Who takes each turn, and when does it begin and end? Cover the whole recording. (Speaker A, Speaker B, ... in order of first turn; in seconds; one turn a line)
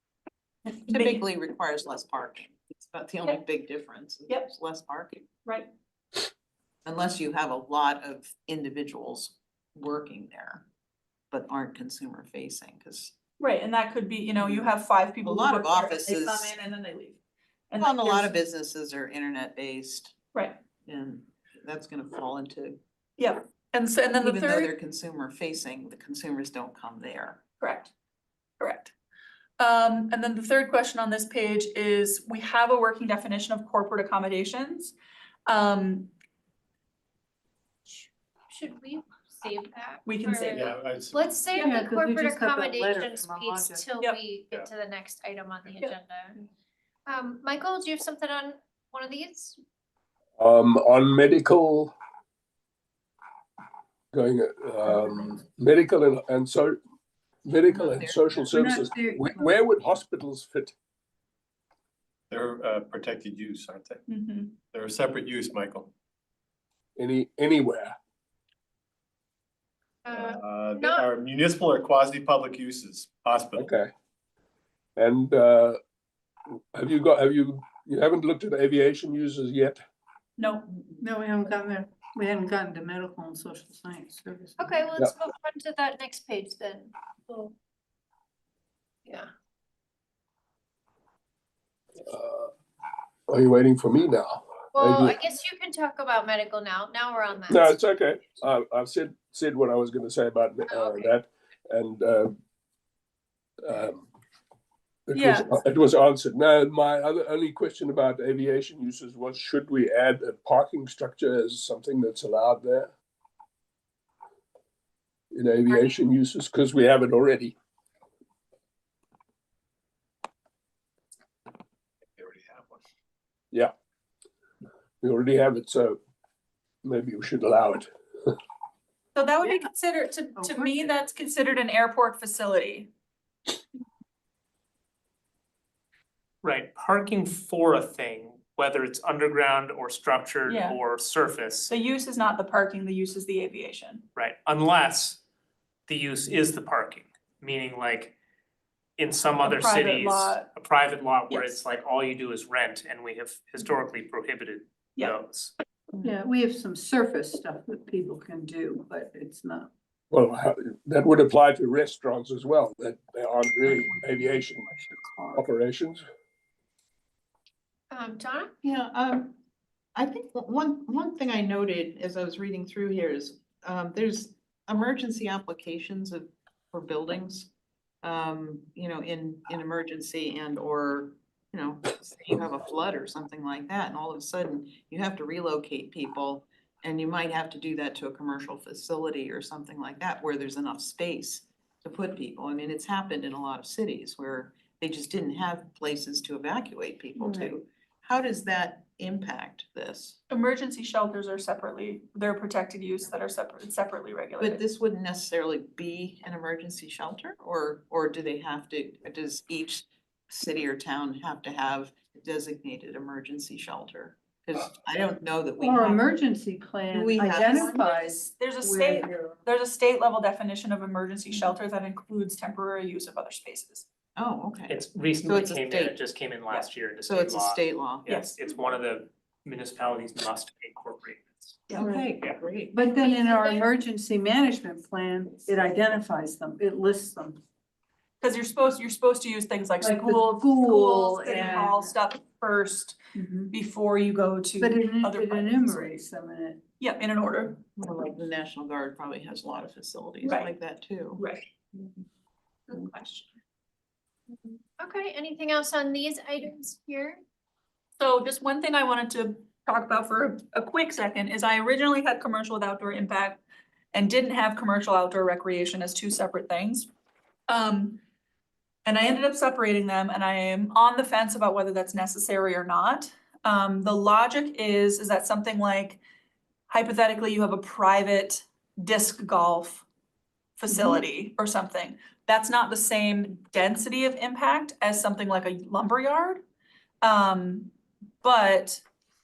Speaker A: 0.9-5.2
Speaker B: 0.9-1.2
Speaker A: 6.8-10.6
Speaker A: 11.3-13.1
Speaker B: 13.4-17.2
Speaker A: 14.4-14.7
Speaker A: 15.2-16.5
Speaker B: 17.7-18.3
Speaker A: 17.8-20.1
Speaker A: 20.8-22.8
Speaker B: 23.2-24.7
Speaker A: 24.2-27.4
Speaker B: 27.6-27.9
Speaker B: 28.6-28.9
Speaker B: 29.6-34.9
Speaker B: 35.5-36.1
Speaker C: 37.9-46.4
Speaker B: 40.0-40.7
Speaker D: 40.5-41.5
Speaker E: 41.6-43.9
Speaker C: 47.0-49.6
Speaker F: 50.4-51.9
Speaker F: 54.1-56.8
Speaker F: 57.4-60.7
Speaker A: 57.6-58.5
Speaker E: 58.5-59.5
Speaker D: 62.3-64.0
Speaker B: 64.1-64.5
Speaker D: 64.7-65.9
Speaker F: 67.0-68.0
Speaker C: 70.0-71.1
Speaker D: 70.1-73.7
Speaker F: 73.5-73.9
Speaker F: 75.0-75.8
Speaker F: 76.7-79.8
Speaker B: 80.4-80.7
Speaker E: 81.0-84.8
Speaker C: 84.6-87.5
Speaker C: 89.0-89.3
Speaker F: 92.0-92.5
Speaker F: 93.3-95.2
Speaker C: 94.7-97.8
Speaker F: 97.5-102.3
Speaker C: 100.7-101.1
Speaker F: 103.6-104.1
Speaker F: 105.1-112.9
Speaker B: 105.1-105.5
Speaker F: 115.3-117.6
Speaker C: 115.7-116.0
Speaker D: 122.1-122.9
Speaker F: 125.0-126.0
Speaker F: 126.8-128.3
Speaker B: 129.1-132.9
Speaker E: 130.3-130.9
Speaker G: 136.4-141.7
Speaker B: 140.5-140.8
Speaker B: 141.7-144.0
Speaker G: 144.1-145.2
Speaker G: 145.9-148.1
Speaker G: 149.0-155.5
Speaker B: 149.4-150.5
Speaker B: 151.3-151.6
Speaker E: 156.0-159.7
Speaker F: 160.1-164.7
Speaker E: 164.3-165.4
Speaker F: 165.3-166.0
Speaker C: 167.9-168.6
Speaker A: 168.6-169.3
Speaker A: 169.9-177.5
Speaker A: 178.0-200.2
Speaker E: 197.2-197.5
Speaker B: 200.3-204.6
Speaker A: 204.4-216.0
Speaker E: 215.6-219.4
Speaker A: 216.9-217.7
Speaker B: 217.4-223.8
Speaker A: 224.2-226.0
Speaker G: 224.7-231.6
Speaker A: 227.0-228.1
Speaker B: 228.1-228.4
Speaker A: 231.7-232.8
Speaker E: 231.8-232.0
Speaker E: 232.7-237.4
Speaker C: 232.9-233.7
Speaker B: 238.2-246.0
Speaker E: 239.8-241.9
Speaker E: 243.1-243.5
Speaker E: 244.6-246.6
Speaker B: 246.8-247.6
Speaker A: 247.7-252.0
Speaker B: 250.2-250.5
Speaker B: 251.2-251.5
Speaker B: 252.7-253.3
Speaker C: 254.3-257.2
Speaker B: 258.0-263.4
Speaker B: 263.9-266.9
Speaker B: 267.5-268.0
Speaker B: 268.9-276.0
Speaker B: 276.7-279.8
Speaker B: 280.6-286.4
Speaker E: 280.7-281.0
Speaker B: 287.0-288.8